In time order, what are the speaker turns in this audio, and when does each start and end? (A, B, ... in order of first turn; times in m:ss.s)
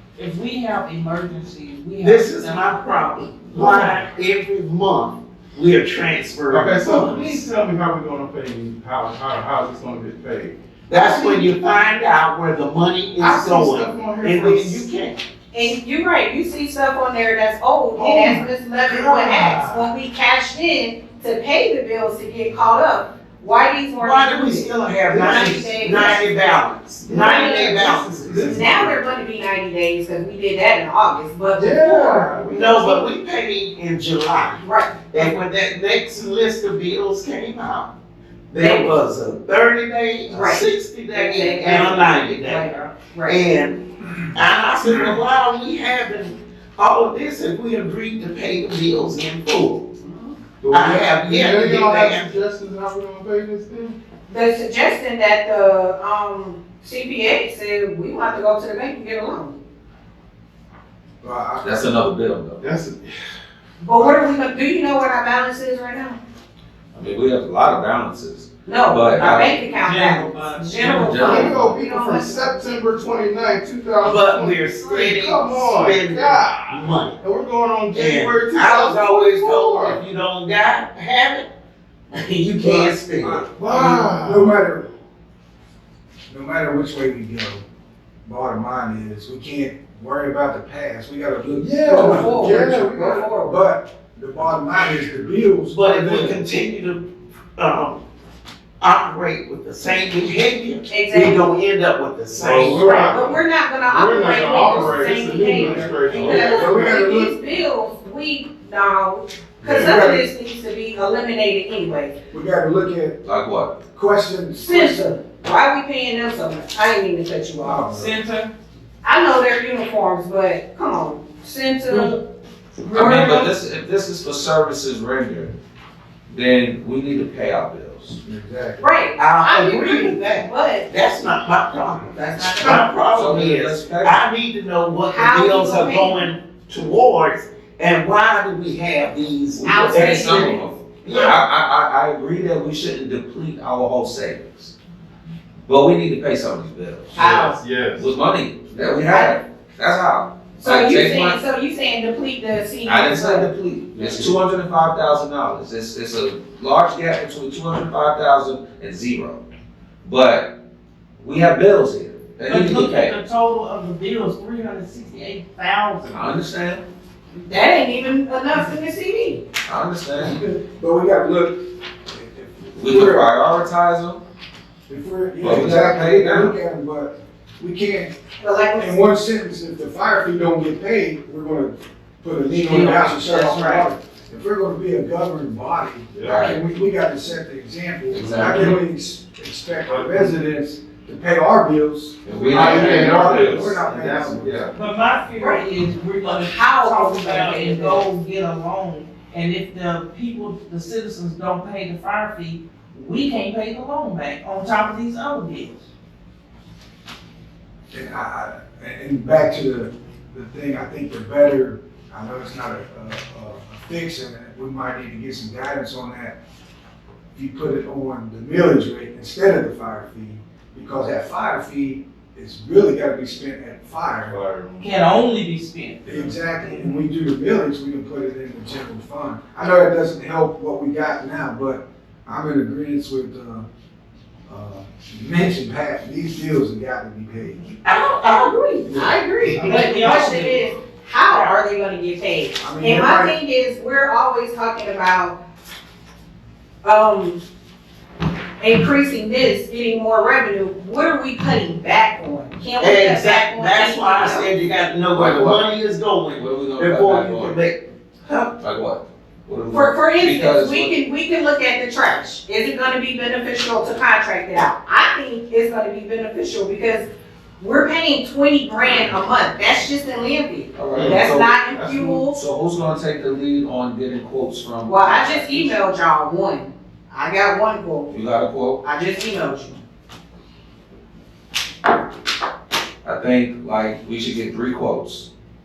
0:00.2-0:02.8 A
0:02.0-0:07.4 B
0:03.5-0:04.0 A
0:03.5-0:03.9 C
0:06.5-0:11.4 C
0:10.9-0:15.2 B
0:13.2-0:14.9 C
0:15.5-0:26.4 D
0:17.9-0:19.9 C
0:24.0-0:28.5 B
0:25.2-0:25.7 C
0:27.0-0:29.0 C
0:27.1-0:33.0 D
0:31.6-0:33.0 C
0:32.5-0:37.9 B
0:34.6-0:35.3 D
0:38.5-0:42.7 B
0:38.6-0:39.0 D
0:40.3-0:43.4 D
0:43.2-0:43.8 B
0:44.3-0:49.9 B
0:50.0-0:50.3 D
0:50.6-0:54.0 C
0:50.7-0:52.3 B
0:54.3-0:59.6 D
1:01.2-1:01.7 E
1:01.6-1:02.6 F
1:02.6-1:03.2 C
1:03.8-1:06.2 D
1:06.9-1:09.5 F
1:08.6-1:12.6 D
1:09.2-1:11.3 A
1:11.0-1:11.8 F
1:11.2-1:20.0 C
1:14.0-1:17.2 B
1:17.9-1:21.5 B
1:22.1-1:23.5 B
1:22.6-1:24.8 E
1:23.6-1:24.6 C
1:26.3-1:27.6 E
1:28.2-1:36.4 E
1:31.5-1:33.0 C
1:31.8-1:33.6 D
1:35.7-1:37.0 B
1:37.6-1:38.0 B
1:38.8-1:42.9 B
1:40.9-1:41.5 D
1:42.4-1:46.8 C
1:42.7-1:43.2 E
1:42.8-1:52.1 D
1:45.7-1:47.3 E
1:49.6-1:50.2 E
1:52.3-1:53.2 E
1:53.2-1:53.8 F
1:53.9-1:55.1 E
1:54.5-1:57.8 D
1:57.6-1:58.2 E
1:57.9-1:58.5 A
1:59.0-2:02.2 D
2:02.9-2:03.5 D
2:02.9-2:05.5 F
2:06.3-2:08.2 F
2:08.2-2:08.8 E
2:08.8-2:10.9 D
2:09.2-2:21.4 B
2:12.1-2:12.8 D
2:12.3-2:13.0 A
2:13.1-2:14.2 F
2:15.1-2:16.2 D
2:19.5-2:24.7 F
2:19.6-2:21.4 D
2:25.7-2:31.4 F
2:27.2-2:27.6 D
2:27.5-2:28.1 C
2:29.0-2:29.4 D
2:30.6-2:33.5 D
2:32.8-2:39.4 F
2:40.0-2:40.5 F
2:41.2-2:43.1 F
2:42.5-2:46.4 A
2:46.1-2:46.8 F
2:47.3-2:49.4 D
2:49.7-2:50.4 F
2:50.2-2:53.3 E
2:52.8-2:54.2 F
2:54.9-2:58.1 E
2:55.4-2:56.5 F
2:58.4-2:59.0 D
2:58.8-3:14.7 E
3:02.5-3:03.9 A
3:06.1-3:06.5 C
3:08.1-3:08.8 F
3:09.8-3:10.3 C
3:12.2-3:13.8 F
3:12.5-3:14.7 C
3:14.7-3:25.8 A
3:15.4-3:15.6 D
3:16.2-3:18.1 D
3:27.9-3:36.4 E
3:37.3-3:44.4 E
3:44.2-3:44.9 C
3:44.8-3:46.4 A
3:46.0-3:53.6 E
3:54.5-3:57.7 E
3:57.8-3:58.9 B
3:58.1-4:05.4 D
3:58.8-3:59.6 E
3:59.5-4:00.7 A
3:59.6-3:59.9 B
4:02.6-4:03.3 E
4:06.8-4:07.4 D
4:08.6-4:14.5 D
4:12.8-4:18.5 B
4:15.1-4:15.7 F
4:16.4-4:17.6 F
4:18.6-4:20.9 F
4:19.7-4:27.1 D
4:27.6-4:32.4 D
4:30.8-4:31.6 F
4:30.9-4:31.2 C
4:31.7-4:32.2 C
4:32.2-4:35.8 F
4:34.8-4:38.1 D
4:38.1-4:38.8 F
4:38.8-4:39.8 D
4:43.0-4:45.3 F